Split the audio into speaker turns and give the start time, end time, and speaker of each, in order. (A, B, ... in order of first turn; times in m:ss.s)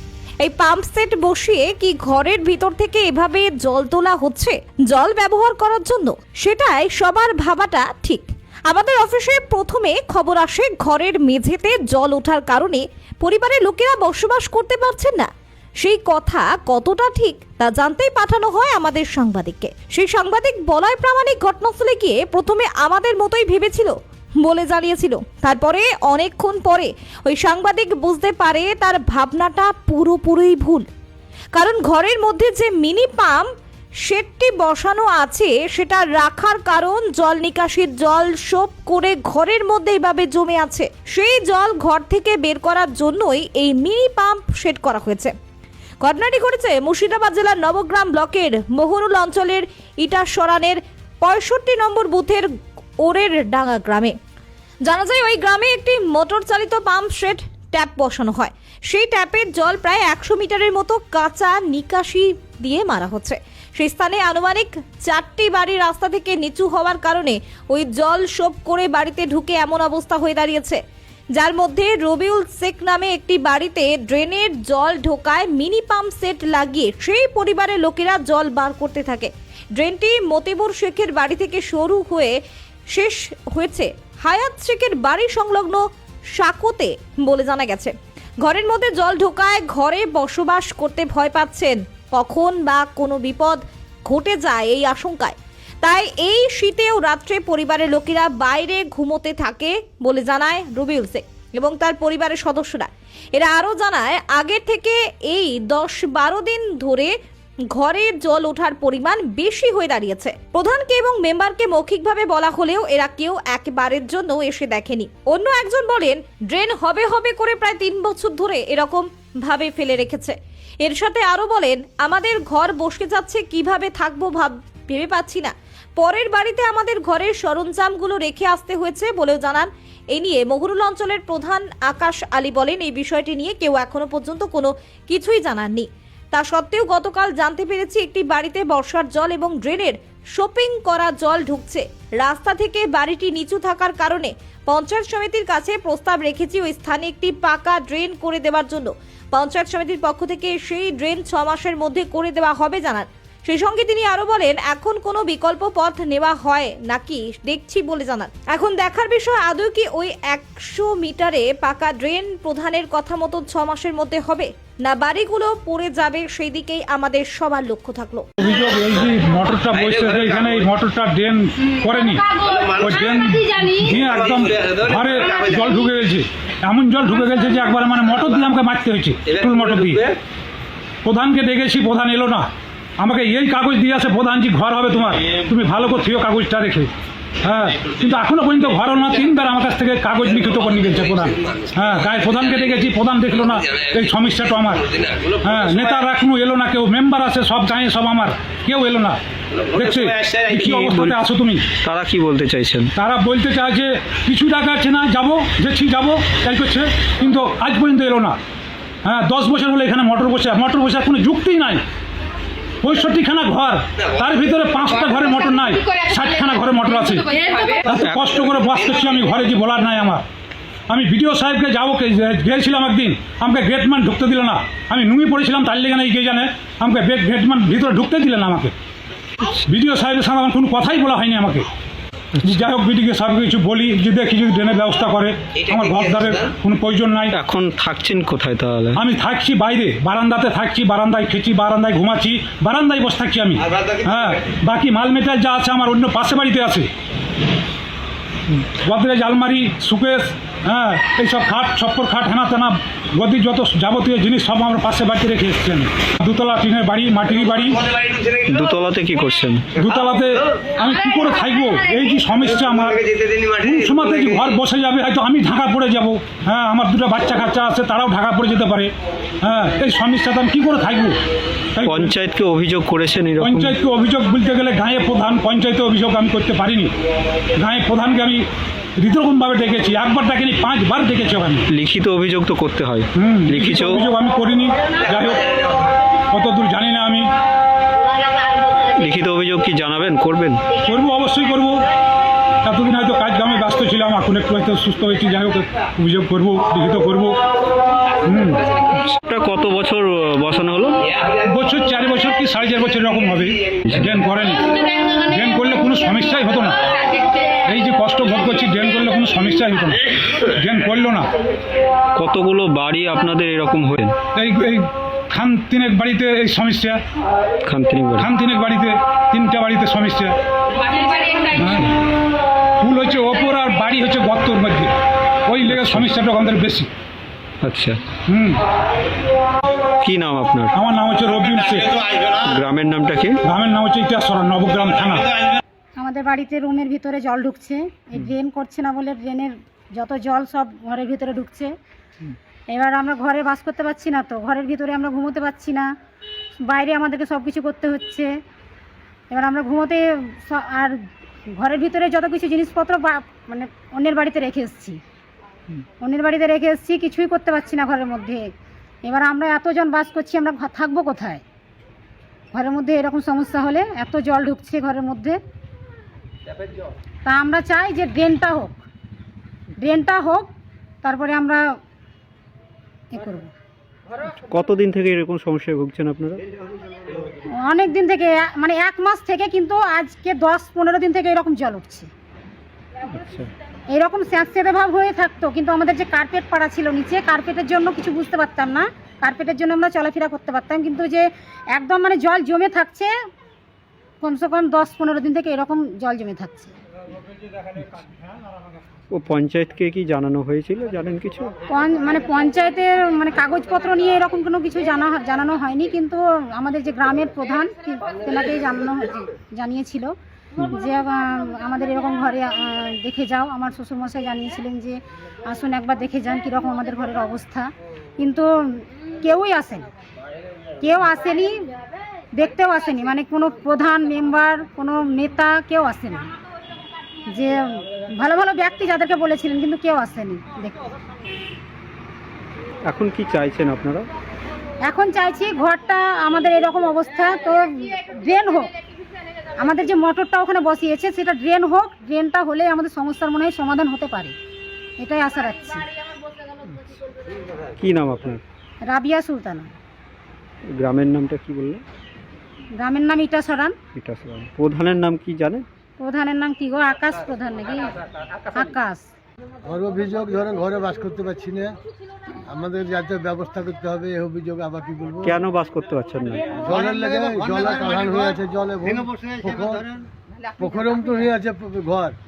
0:00.4-0:15.3 A
0:15.8-0:30.8 A
0:31.6-0:33.5 A
0:34.1-0:45.3 A
0:46.0-0:52.5 A
0:53.0-0:54.1 A
0:54.9-1:10.8 A
1:11.4-1:22.3 A
1:23.0-1:25.8 A
1:26.4-1:47.1 A
1:47.8-2:48.2 A
2:48.4-3:00.1 B
3:01.0-3:02.5 B
3:03.0-3:06.9 B
3:07.4-3:19.2 B
3:19.7-3:21.6 B
3:20.5-3:21.2 C
3:21.8-3:22.9 C
3:23.0-3:28.4 B
3:29.0-3:31.8 B
3:32.8-3:40.2 B
3:40.9-3:48.7 B
3:49.7-3:51.7 B
3:52.4-3:57.3 B
3:57.3-3:59.0 C
3:59.0-4:06.9 B
4:08.8-4:17.8 B
4:18.5-4:19.7 C
4:19.8-4:31.2 B
4:31.8-4:32.2 B
4:31.8-4:33.7 C
4:33.4-4:36.9 B
4:37.6-4:38.4 B
4:39.0-4:41.7 B
4:41.7-4:44.0 C
4:43.2-4:45.6 B
4:46.3-4:47.3 B
4:49.0-4:50.6 C
4:50.8-4:51.8 B
4:52.6-4:57.4 B
4:58.2-4:58.6 B
4:59.0-5:01.0 C
5:01.4-5:06.9 B
5:03.9-5:04.2 C
5:07.6-5:11.3 B
5:12.2-5:14.2 C
5:14.4-5:17.0 B
5:17.7-5:18.3 C
5:18.2-5:20.4 B
5:21.1-5:21.9 B
5:22.8-5:24.9 B
5:25.5-5:26.9 B
5:25.7-5:26.1 C
5:27.6-5:28.0 C
5:28.3-5:28.6 B
5:30.0-5:30.8 C
5:30.7-5:31.9 B
5:32.4-5:33.4 C
5:33.4-5:35.3 B
5:36.0-5:41.7 D
5:42.7-5:45.9 D
5:46.6-5:48.3 D
5:49.3-5:51.0 D
5:51.6-5:55.0 D
5:56.0-5:58.5 D
5:59.0-6:01.4 D
6:02.5-6:05.4 D
6:07.3-6:08.8 D
6:09.8-6:10.5 D
6:11.0-6:11.6 D
6:13.1-6:13.5 D
6:14.4-6:16.4 C
6:17.5-6:22.1 D
6:23.1-6:23.5 C
6:23.9-6:33.1 D
6:34.2-6:36.7 D
6:39.1-6:41.5 C
6:41.7-6:50.1 D
6:50.7-6:59.9 D
7:00.8-7:01.5 D
7:02.4-7:06.3 D
7:07.3-7:10.9 D
7:12.8-7:14.1 C
7:14.8-7:18.7 D
7:19.6-7:24.4 D
7:25.0-7:25.9 D
7:27.8-7:28.4 C
7:28.8-7:29.7 D
7:30.7-7:31.8 C
7:32.8-7:33.7 D
7:34.0-7:35.7 C
7:36.0-7:38.0 D
7:38.5-7:39.1 D
7:39.6-7:41.8 E
7:42.5-7:45.4 E
7:45.2-7:46.8 C
7:46.6-7:49.9 E
7:50.6-7:52.2 E